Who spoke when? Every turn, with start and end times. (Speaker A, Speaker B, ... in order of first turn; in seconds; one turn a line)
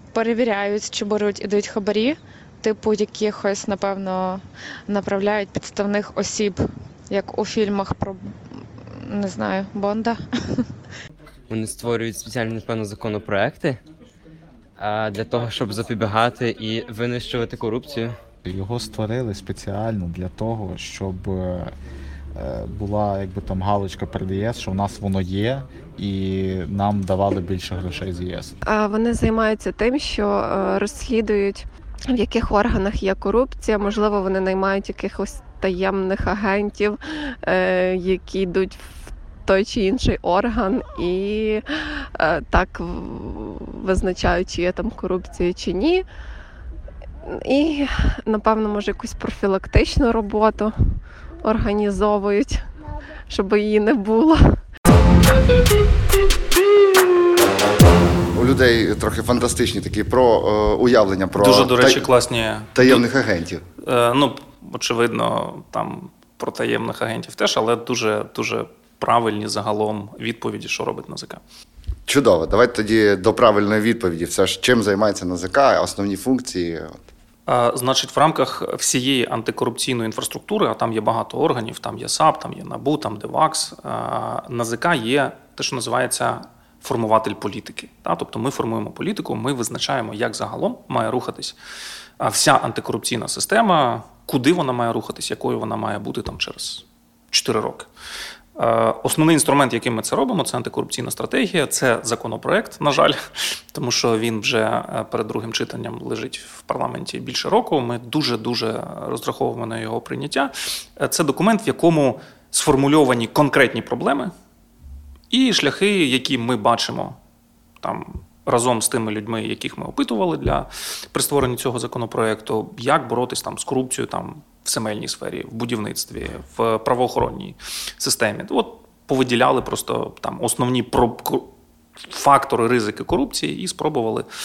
Speaker A: 0.1-8.3
Speaker A: 8.9-10.6
Speaker B: 11.5-13.8
Speaker B: 14.8-18.2
Speaker C: 18.4-21.8
Speaker C: 22.4-28.6
Speaker D: 28.6-46.0
Speaker D: 47.2-50.8
Speaker D: 51.4-52.7
Speaker D: 53.3-54.6
Speaker E: 58.3-62.0
Speaker F: 61.4-63.0
Speaker E: 62.8-63.6
Speaker F: 63.8-71.4
Speaker E: 72.1-77.0
Speaker F: 77.5-91.6
Speaker F: 92.2-97.9
Speaker F: 98.6-114.3
Speaker F: 115.3-117.2
Speaker F: 117.8-131.5
Speaker F: 132.0-134.3